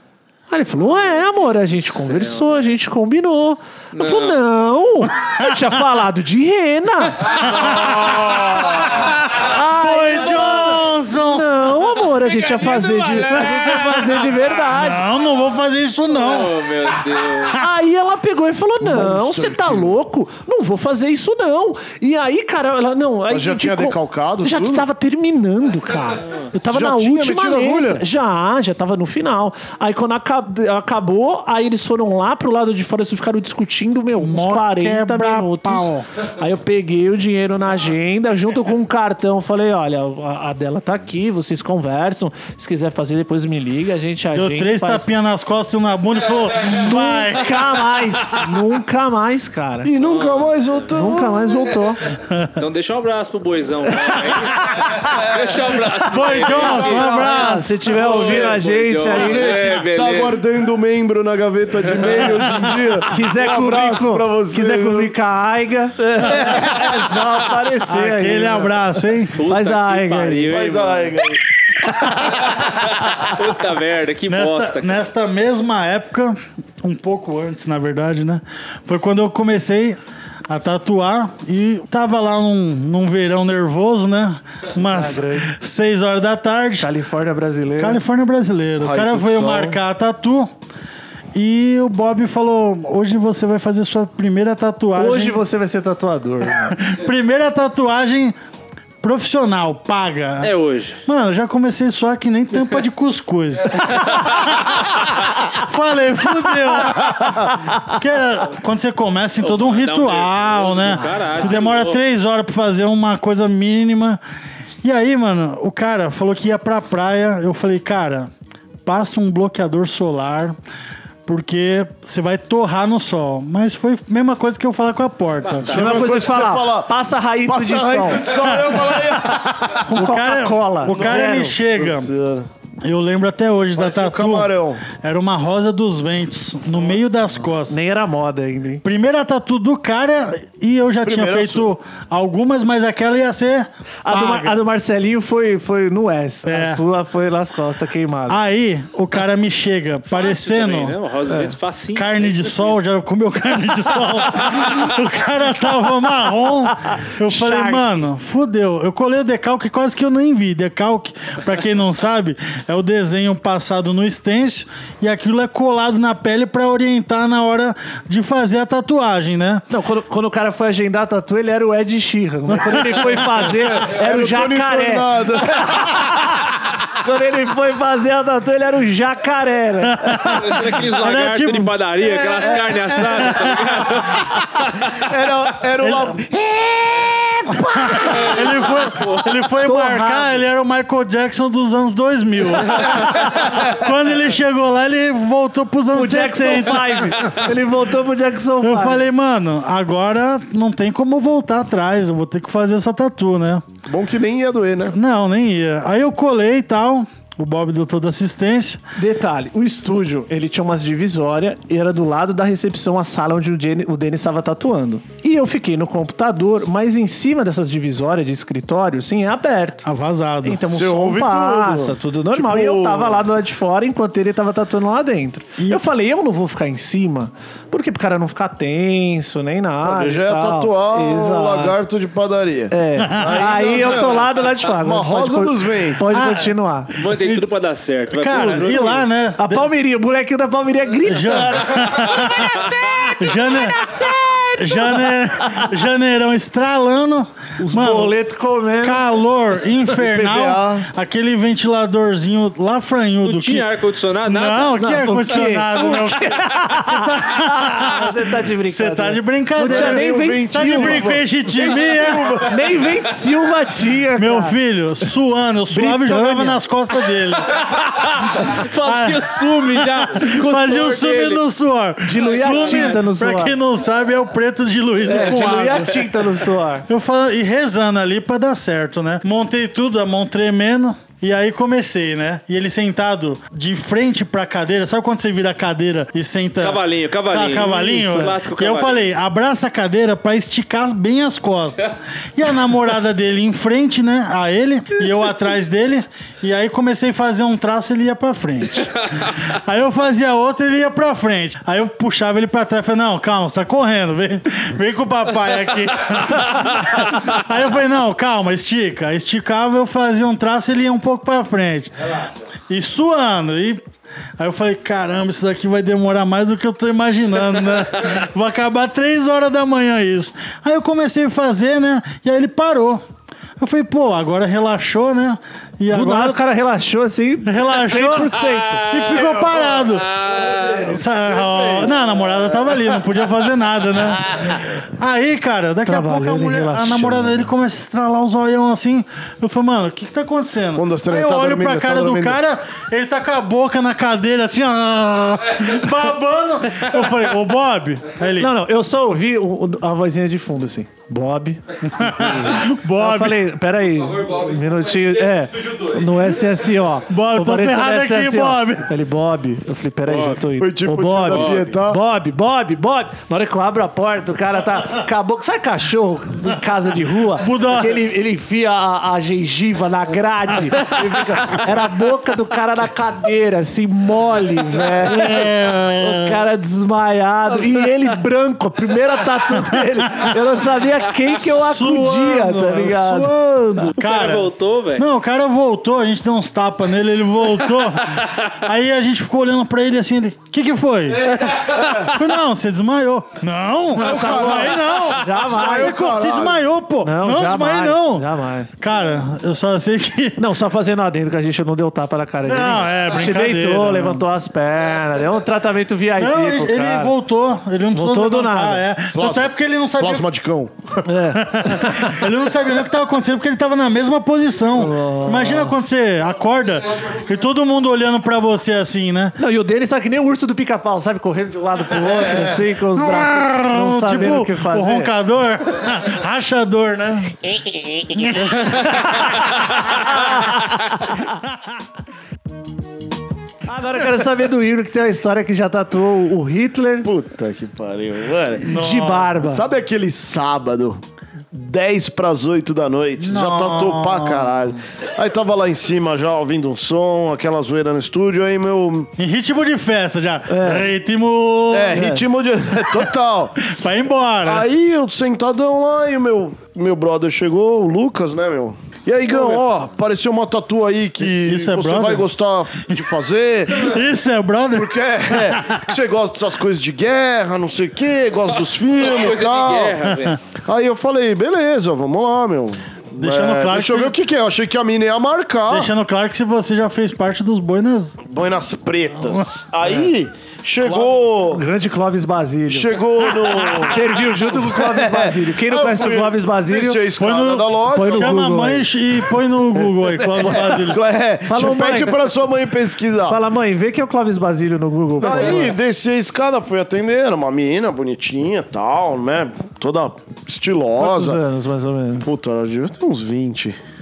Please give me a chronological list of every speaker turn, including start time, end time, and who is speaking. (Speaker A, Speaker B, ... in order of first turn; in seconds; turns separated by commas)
Speaker A: 0.5-7.6, Speaker B: 1.9-2.5, Speaker B: 3.9-4.4, Speaker B: 7.4-9.1, Speaker C: 7.4-11.4, Speaker A: 9.3-15.1, Speaker B: 11.9-14.5, Speaker C: 13.3-14.2, Speaker C: 14.7-16.6, Speaker B: 16.1-17.6, Speaker A: 17.5-45.1, Speaker D: 18.8-19.9, Speaker D: 23.3-24.9, Speaker D: 26.6-28.1, Speaker C: 34.2-36.0, Speaker C: 44.3-48.0, Speaker A: 46.6-49.9, Speaker D: 49.8-51.8, Speaker B: 50.0-50.9, Speaker A: 50.9-52.0, Speaker B: 52.5-60.4, Speaker C: 54.3-54.9, Speaker D: 55.0-55.5, Speaker C: 56.0-57.8, Speaker D: 56.6-65.1, Speaker A: 56.6-59.7, Speaker B: 62.0-62.2, Speaker A: 63.0-68.8, Speaker D: 66.0-67.3, Speaker C: 67.8-69.4, Speaker B: 69.3-71.2, Speaker A: 69.4-70.5, Speaker D: 70.5-71.4, Speaker B: 72.0-75.0, Speaker C: 74.3-86.9, Speaker A: 84.8-85.5, Speaker A: 86.8-88.0, Speaker C: 87.8-90.5, Speaker D: 88.8-89.8, Speaker C: 91.3-95.4, Speaker A: 95.0-96.8, Speaker C: 96.8-98.3, Speaker C: 99.0-100.5, Speaker B: 100.4-101.0, Speaker C: 101.0-114.2, Speaker B: 103.9-104.2, Speaker B: 109.4-112.0, Speaker C: 114.8-118.3, Speaker C: 118.8-120.5, Speaker C: 121.2-126.0, Speaker B: 125.4-125.8, Speaker D: 125.7-129.8, Speaker A: 125.7-128.4, Speaker C: 128.5-128.8, Speaker A: 129.3-131.6, Speaker C: 129.8-132.1, Speaker D: 130.9-132.5, Speaker C: 132.8-137.8, Speaker D: 133.7-134.8, Speaker A: 137.7-138.8, Speaker C: 138.8-144.6, Speaker D: 141.0-141.7, Speaker A: 144.0-148.4, Speaker C: 146.4-146.8, Speaker C: 148.3-151.0, Speaker B: 150.1-152.8, Speaker C: 151.9-169.6, Speaker A: 157.2-158.1, Speaker A: 169.7-180.5, Speaker C: 172.6-173.3, Speaker D: 173.7-176.2, Speaker C: 179.9-181.7, Speaker B: 180.2-185.0, Speaker D: 182.5-183.4, Speaker C: 183.0-183.7, Speaker D: 184.9-188.0, Speaker C: 185.8-186.2, Speaker C: 187.5-197.5, Speaker A: 187.7-188.6, Speaker B: 188.1-189.2, Speaker A: 189.6-190.4, Speaker A: 195.9-199.1, Speaker C: 198.6-203.7, Speaker D: 203.8-205.0, Speaker C: 204.9-208.8, Speaker A: 208.9-219.8, Speaker C: 219.8-220.6, Speaker A: 220.4-231.8, Speaker D: 220.7-223.2, Speaker D: 229.8-236.1, Speaker A: 232.7-236.9, Speaker C: 233.0-233.4, Speaker C: 236.1-237.4, Speaker B: 237.0-239.1, Speaker C: 238.1-239.7, Speaker D: 238.3-238.9, Speaker A: 239.4-245.6, Speaker C: 241.1-248.2, Speaker A: 247.6-249.0, Speaker C: 248.8-253.7, Speaker D: 249.9-250.9, Speaker B: 253.2-254.8, Speaker C: 254.2-262.4, Speaker A: 254.8-261.2, Speaker D: 259.6-263.0, Speaker A: 262.4-264.6, Speaker C: 264.2-276.1, Speaker A: 265.7-266.6, Speaker B: 267.6-271.4, Speaker A: 272.0-273.6, Speaker B: 272.4-272.9, Speaker A: 275.0-276.9, Speaker C: 276.9-313.8, Speaker B: 286.6-289.1, Speaker A: 288.0-288.3, Speaker C: 314.4-323.0, Speaker C: 323.6-326.4, Speaker A: 325.9-329.0, Speaker C: 327.4-330.1, Speaker B: 328.9-330.8, Speaker D: 329.2-332.8, Speaker C: 330.7-348.5, Speaker A: 335.8-337.5, Speaker D: 340.7-342.4, Speaker A: 348.4-383.3, Speaker C: 351.9-353.4, Speaker C: 357.1-358.9, Speaker B: 360.1-360.4, Speaker D: 360.6-362.0, Speaker B: 361.2-361.7, Speaker C: 367.4-368.0, Speaker C: 375.0-376.4, Speaker C: 381.4-398.3, Speaker B: 383.9-385.1, Speaker A: 393.9-396.0, Speaker D: 393.9-394.9, Speaker D: 395.4-396.6, Speaker A: 397.0-398.7, Speaker C: 398.8-400.4, Speaker A: 400.4-407.1, Speaker C: 402.4-404.2, Speaker C: 406.2-410.2, Speaker A: 407.9-408.9, Speaker D: 409.1-411.1, Speaker A: 411.0-412.2, Speaker C: 411.3-419.4, Speaker A: 414.7-415.8, Speaker A: 419.4-425.1, Speaker C: 422.9-429.3, Speaker A: 430.1-431.2, Speaker A: 433.6-437.1, Speaker D: 437.0-438.8, Speaker A: 438.6-439.6, Speaker C: 438.7-439.3, Speaker D: 439.4-441.0, Speaker D: 441.5-449.1, Speaker C: 443.2-444.5, Speaker C: 449.2-452.1, Speaker A: 450.5-450.9, Speaker D: 451.7-453.6, Speaker A: 451.9-452.3, Speaker C: 453.6-454.6, Speaker D: 454.4-464.0, Speaker C: 461.2-462.2, Speaker C: 463.7-465.8, Speaker D: 464.7-475.9, Speaker B: 468.5-470.4, Speaker C: 473.2-474.1, Speaker C: 475.7-478.2, Speaker D: 478.2-481.6, Speaker A: 480.8-487.0, Speaker D: 482.7-488.5, Speaker C: 487.2-491.0, Speaker A: 487.9-488.9, Speaker D: 490.3-493.4, Speaker A: 491.4-492.3, Speaker A: 493.2-495.8, Speaker D: 495.2-501.4, Speaker A: 500.9-502.3, Speaker D: 502.2-503.8